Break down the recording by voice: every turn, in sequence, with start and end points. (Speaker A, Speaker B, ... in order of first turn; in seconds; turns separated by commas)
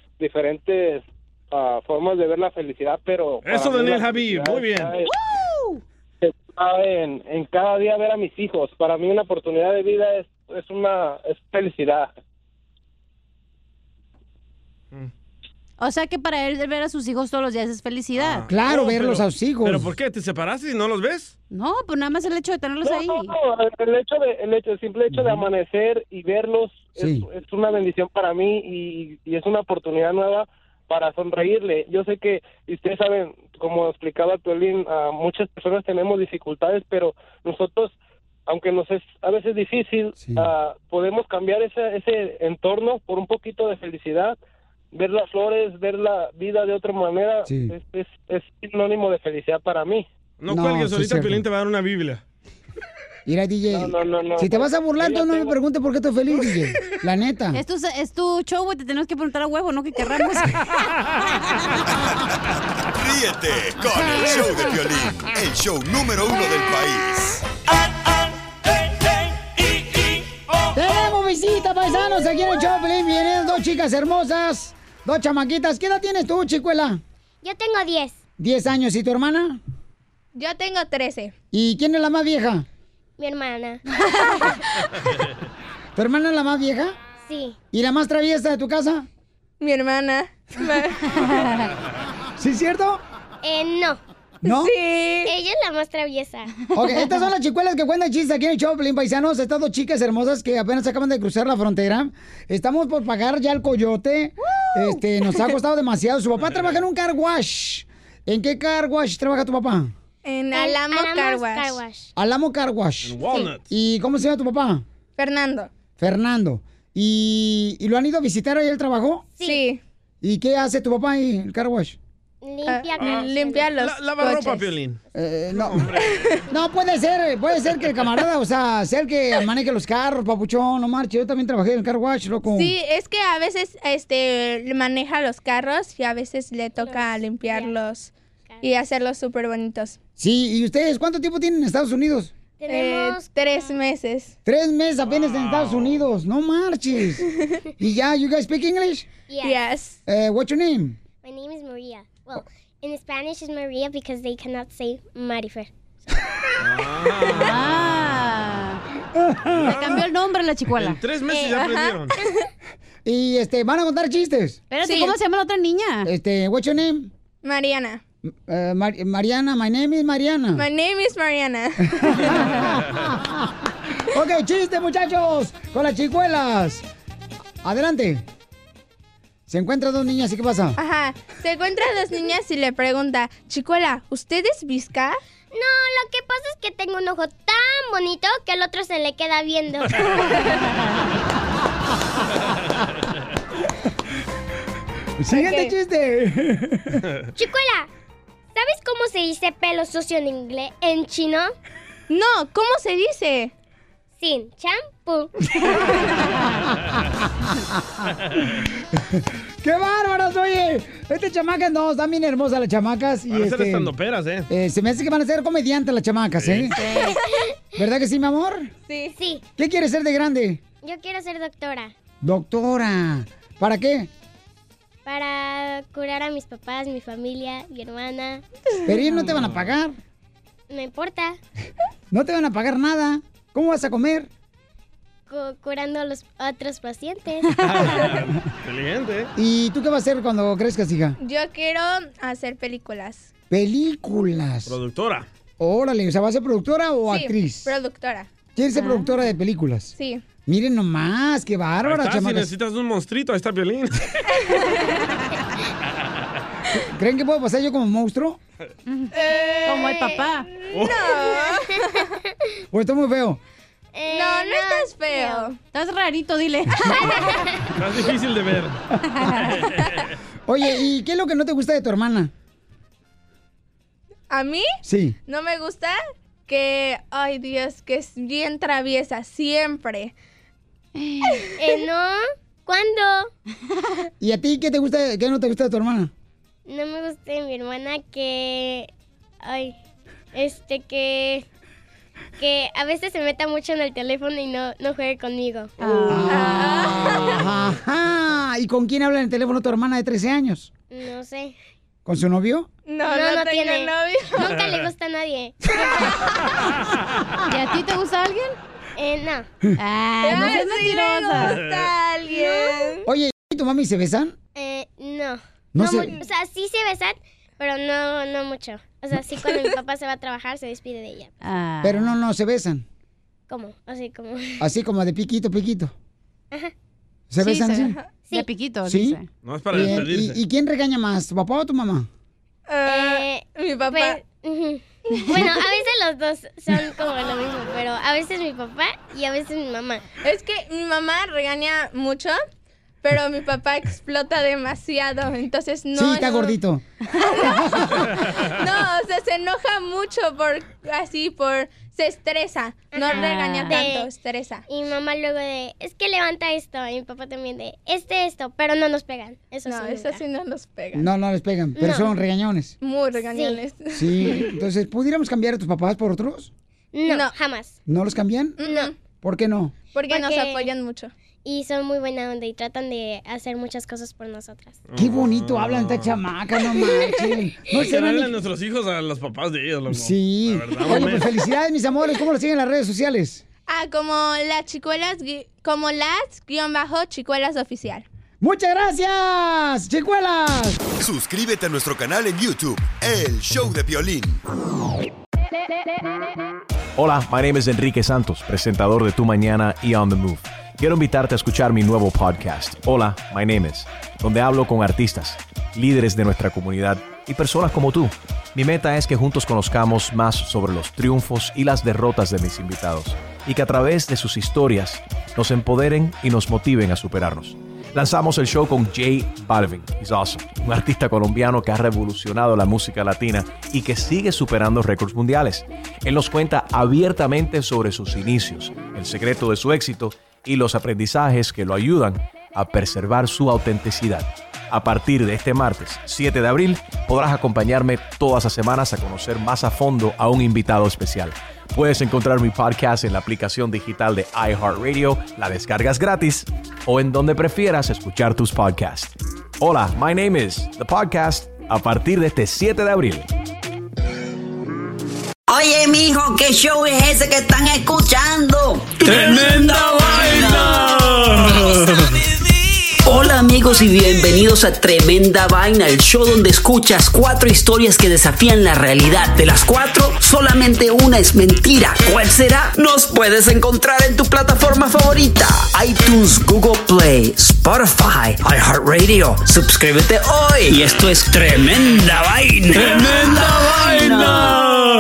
Speaker A: 0.2-5.0, Speaker B: 3.4-5.0, Speaker C: 5.0-5.8, Speaker A: 6.2-12.1, Speaker C: 15.8-18.5, Speaker B: 18.1-21.4, Speaker D: 18.4-19.9, Speaker C: 21.5-23.3, Speaker A: 22.8-37.9, Speaker D: 25.1-25.4, Speaker D: 27.0-27.3, Speaker A: 38.5-44.4, Speaker D: 40.2-40.5, Speaker A: 44.9-50.1, Speaker D: 47.5-47.7, Speaker B: 50.4-52.2, Speaker D: 50.5-51.5, Speaker D: 53.3-57.6, Speaker A: 53.7-55.5, Speaker C: 57.5-60.6, Speaker E: 63.0-67.4, Speaker D: 64.0-64.4, Speaker D: 70.7-77.0, Speaker F: 77.4-78.2, Speaker D: 78.4-79.6, Speaker G: 80.3-81.3, Speaker D: 81.5-82.7, Speaker F: 83.2-83.8, Speaker D: 86.0-87.0, Speaker F: 87.2-87.6, Speaker D: 87.7-89.1, Speaker G: 89.6-91.1, Speaker C: 91.1-91.7, Speaker D: 92.4-93.0, Speaker F: 93.4-94.0, Speaker D: 94.4-94.7, Speaker G: 94.5-95.3, Speaker F: 95.3-96.6, Speaker C: 96.7-97.2, Speaker D: 96.7-110.0, Speaker C: 104.6-105.5, Speaker B: 106.5-106.8, Speaker G: 110.2-111.8, Speaker F: 110.5-112.1, Speaker D: 112.2-114.8, Speaker B: 113.0-113.7, Speaker G: 115.2-115.7, Speaker D: 116.0-119.3, Speaker G: 119.4-119.8, Speaker D: 120.2-122.0, Speaker F: 122.4-123.7, Speaker G: 122.7-124.8, Speaker B: 123.0-126.4, Speaker D: 125.1-125.9, Speaker G: 126.0-126.4, Speaker D: 126.5-132.7, Speaker G: 132.5-138.1, Speaker F: 136.8-137.8, Speaker F: 138.5-138.8, Speaker G: 138.6-140.0, Speaker D: 140.2-142.3, Speaker F: 142.6-143.8, Speaker G: 142.7-144.3, Speaker D: 144.4-147.2, Speaker B: 145.0-146.1, Speaker D: 147.8-149.1, Speaker F: 149.3-149.6, Speaker G: 149.4-150.0, Speaker D: 150.1-151.0, Speaker F: 151.2-155.7, Speaker B: 156.6-158.1, Speaker C: 157.3-158.8, Speaker D: 159.1-159.9, Speaker B: 159.5-160.0, Speaker C: 159.5-161.0, Speaker B: 160.8-162.2, Speaker G: 161.4-162.5, Speaker D: 163.1-164.6, Speaker C: 164.7-166.1, Speaker G: 164.8-165.2, Speaker D: 166.1-167.1, Speaker G: 167.4-168.0, Speaker D: 168.2-170.6, Speaker G: 170.6-172.5, Speaker D: 172.0-176.8, Speaker D: 177.6-178.3, Speaker D: 179.5-180.8, Speaker G: 180.8-185.2, Speaker F: 185.5-190.3, Speaker D: 195.2-197.0, Speaker G: 195.3-195.7, Speaker F: 197.4-197.9, Speaker F: 198.6-201.5, Speaker G: 202.1-203.5, Speaker F: 204.2-205.3, Speaker D: 209.1-213.9, Speaker B: 213.3-214.5, Speaker D: 214.5-216.8, Speaker B: 216.4-216.9, Speaker C: 216.8-217.2, Speaker F: 217.1-217.4, Speaker D: 217.8-218.7, Speaker G: 218.9-219.2, Speaker F: 219.2-219.4, Speaker D: 219.6-220.6, Speaker F: 220.8-221.9, Speaker D: 222.2-224.1, Speaker F: 225.1-228.4, Speaker D: 228.8-230.0, Speaker B: 229.3-229.7, Speaker F: 230.7-231.4, Speaker D: 232.1-234.3, Speaker F: 235.3-237.5, Speaker B: 237.5-239.3, Speaker D: 239.4-241.2, Speaker G: 241.2-243.3, Speaker D: 243.5-244.8, Speaker B: 244.7-245.3, Speaker D: 245.6-247.7, Speaker G: 247.1-248.3, Speaker D: 248.6-249.9, Speaker C: 248.8-249.2, Speaker G: 250.0-250.2, Speaker D: 250.5-252.5, Speaker B: 251.8-254.3, Speaker G: 254.3-254.7, Speaker D: 256.7-258.4, Speaker C: 258.9-260.5, Speaker G: 259.1-259.9, Speaker F: 259.9-260.1, Speaker B: 260.7-261.1, Speaker G: 260.7-262.1, Speaker D: 262.7-263.4, Speaker F: 263.9-265.5, Speaker G: 264.1-265.6, Speaker C: 265.7-267.2, Speaker F: 266.9-267.6, Speaker B: 267.8-268.8, Speaker C: 269.1-269.7, Speaker B: 269.5-269.7, Speaker D: 270.5-272.3, Speaker G: 274.3-274.7, Speaker D: 274.8-275.2, Speaker G: 275.3-280.1, Speaker C: 281.0-281.5, Speaker F: 281.6-283.3, Speaker D: 284.2-286.1, Speaker F: 286.7-288.9, Speaker F: 289.4-289.8, Speaker F: 290.3-291.4, Speaker F: 292.4-295.7, Speaker C: 295.8-296.7, Speaker G: 295.9-297.4, Speaker D: 296.1-300.7, Speaker F: 300.9-301.6, Speaker D: 302.1-302.7, Speaker G: 302.9-304.5, Speaker F: 303.1-306.3, Speaker C: 307.5-308.6, Speaker F: 309.0-309.5, Speaker C: 309.8-311.6, Speaker G: 310.2-313.1, Speaker B: 311.4-311.9, Speaker C: 312.4-312.8, Speaker D: 313.1-314.4, Speaker F: 314.6-321.4, Speaker D: 315.7-316.2, Speaker C: 321.4-322.1, Speaker D: 321.8-322.9, Speaker F: 323.5-324.6, Speaker D: 324.6-325.9, Speaker D: 327.3-328.0, Speaker C: 327.4-329.3, Speaker D: 328.9-329.2, Speaker B: 329.4-330.4, Speaker D: 329.7-332.1, Speaker G: 332.7-334.2, Speaker F: 332.9-340.0, Speaker G: 340.2-342.4, Speaker G: 343.0-346.6, Speaker D: 345.9-346.8, Speaker G: 347.2-354.6, Speaker D: 347.4-348.1, Speaker F: 352.9-354.1, Speaker C: 353.1-353.8, Speaker F: 354.7-360.2, Speaker G: 359.7-361.1, Speaker D: 360.9-362.7, Speaker F: 361.8-362.1, Speaker G: 362.8-364.5, Speaker F: 363.2-363.6, Speaker D: 363.9-366.5, Speaker F: 366.9-367.8, Speaker G: 367.1-367.3, Speaker D: 367.9-368.6, Speaker G: 368.6-368.9, Speaker D: 369.2-369.7, Speaker G: 369.9-371.1, Speaker F: 370.1-370.6, Speaker F: 371.4-374.8, Speaker B: 374.9-376.2, Speaker D: 375.0-378.3, Speaker B: 377.7-381.4, Speaker D: 379.9-383.4, Speaker G: 383.7-388.1, Speaker D: 388.4-390.8, Speaker E: 391.0-394.4, Speaker H: 397.0-453.3, Speaker I: 455.5-462.0, Speaker I: 463.0-484.7